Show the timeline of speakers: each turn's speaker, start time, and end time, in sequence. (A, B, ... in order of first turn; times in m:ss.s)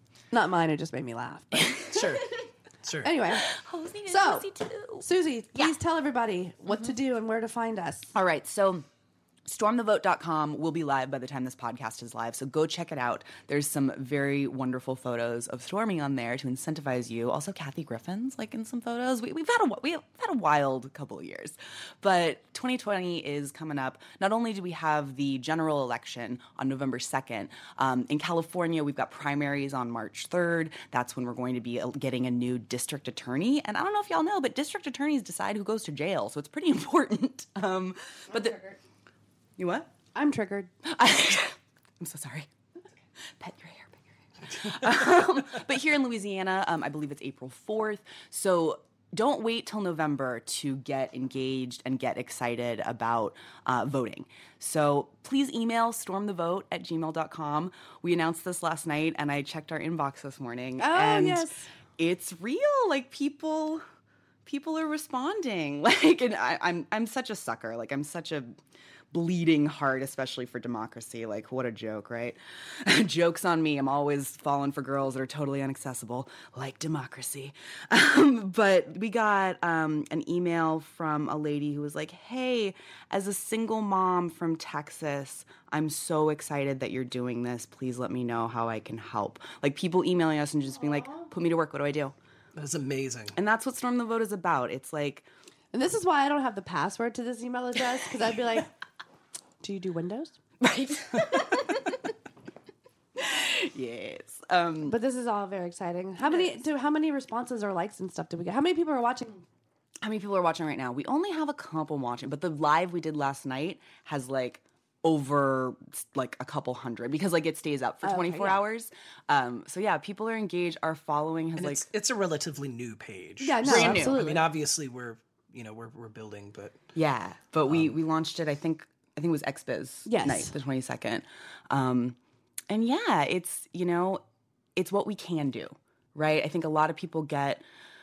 0:00.3-0:02.0 A
0:01.9-0:03.1 B
0:03.0-0:03.5 A
0:03.3-0:05.7 C
0:04.1-0:04.5 A
0:05.0-0:08.1 A
0:08.1-0:08.8 C
0:09.4-0:38.7 C
0:39.6-0:39.9 C
0:40.1-0:40.7 A
0:40.8-0:42.5 C
0:43.2-1:03.8 C
1:00.8-1:01.7 A
1:04.4-1:08.6 C
1:09.1-1:32.1 C
1:32.5-1:33.4 B
1:33.3-1:35.3 C
1:35.7-1:38.7 A
1:39.6-1:40.4 A
1:40.6-1:42.1 C
1:43.2-1:45.0 C
1:44.8-1:49.4 A
1:46.2-1:46.6 C
1:50.0-2:01.9 C
1:58.0-1:58.6 A
2:01.6-2:06.8 B
2:03.4-2:04.4 A
2:03.6-2:04.2 C
2:06.9-2:12.2 C
2:10.0-2:10.5 A
2:12.7-2:14.2 C
2:14.8-2:17.6 C